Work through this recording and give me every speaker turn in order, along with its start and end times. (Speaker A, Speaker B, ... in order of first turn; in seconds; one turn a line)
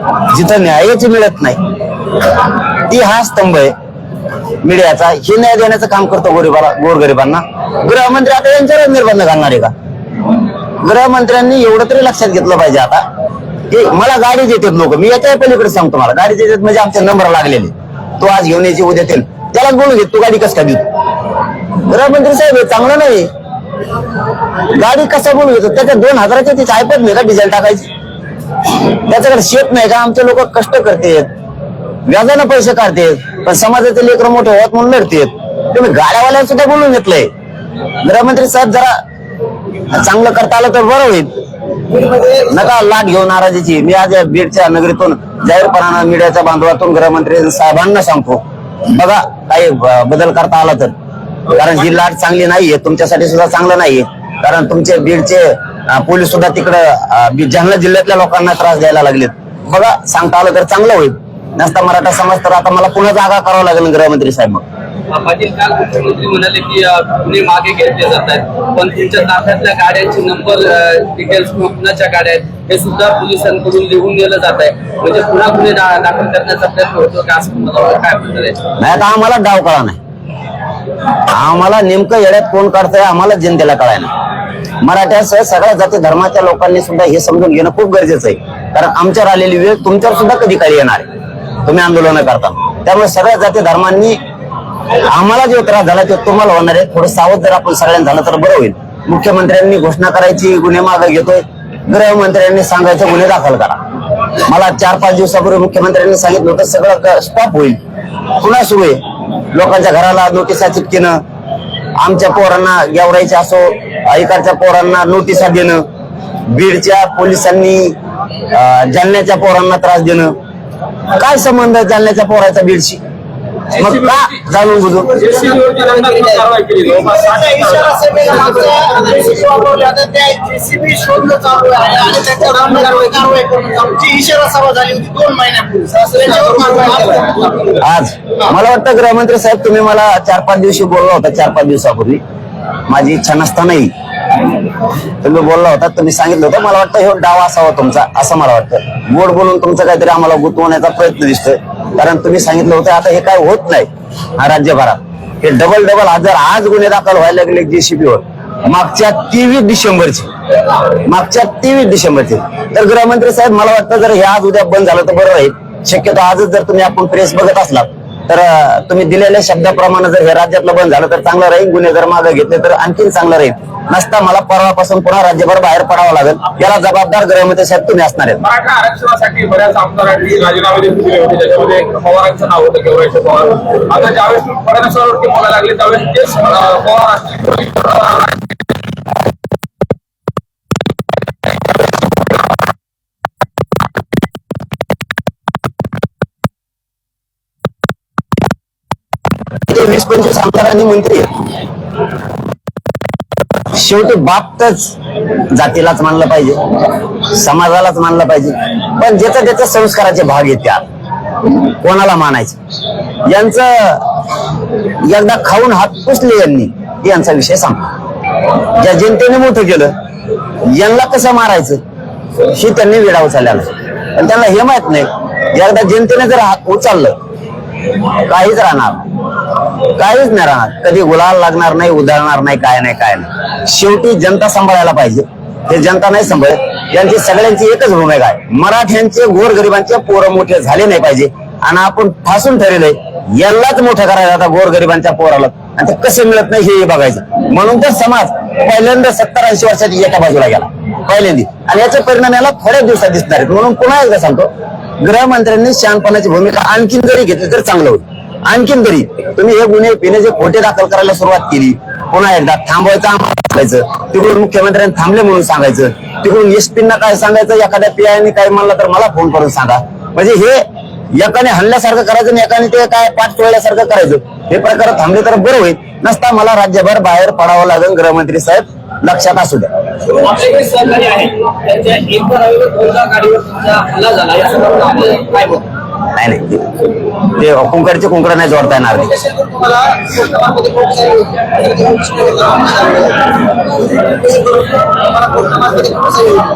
Speaker A: 0.3-1.6
Speaker A: 2.9-3.7
Speaker A: 4.6-9.7
Speaker A: 10.8-13.0
Speaker A: 13.7-20.8
Speaker A: 21.9-23.3
Speaker A: 24.7-27.9
Speaker A: 28.9-31.3
Speaker A: 32.0-37.3
Speaker A: 38.0-39.0
Speaker A: 39.9-41.3
Speaker A: 42.1-50.9
Speaker A: 51.5-64.6
Speaker B: 65.1-78.6
Speaker A: 78.8-80.0
Speaker A: 81.2-84.1
Speaker A: 84.8-91.0
Speaker A: 91.6-94.2
Speaker A: 95.0-103.8
Speaker A: 104.4-107.8
Speaker A: 108.3-109.0
Speaker A: 109.5-111.2
Speaker A: 112.0-115.8
Speaker A: 116.5-117.9
Speaker A: 118.5-120.3
Speaker A: 121.2-123.0
Speaker A: 123.7-125.2
Speaker C: 123.8-124.2
Speaker C: 125.1-128.6
Speaker D: 126.8-137.5
Speaker A: 137.8-142.2
Speaker A: 142.9-143.9
Speaker A: 145.2-160.3
Speaker A: 161.0-178.4
Speaker C: 178.4-188.4
Speaker A: 199.7-201.3
Speaker A: 203.7-204.9
Speaker A: 205.5-206.6
Speaker A: 207.2-210.8
Speaker A: 211.7-212.6
Speaker A: 213.2-214.1
Speaker A: 215.0-217.9
Speaker A: 218.7-219.9
Speaker A: 220.7-221.8
Speaker A: 222.5-227.2
Speaker A: 228.2-229.1
Speaker A: 229.9-254.5
Speaker A: 255.0-270.6
Speaker A: 271.1-279.7
Speaker B: 280.1-285.6
Speaker A: 286.1-289.1
Speaker B: 289.2-293.1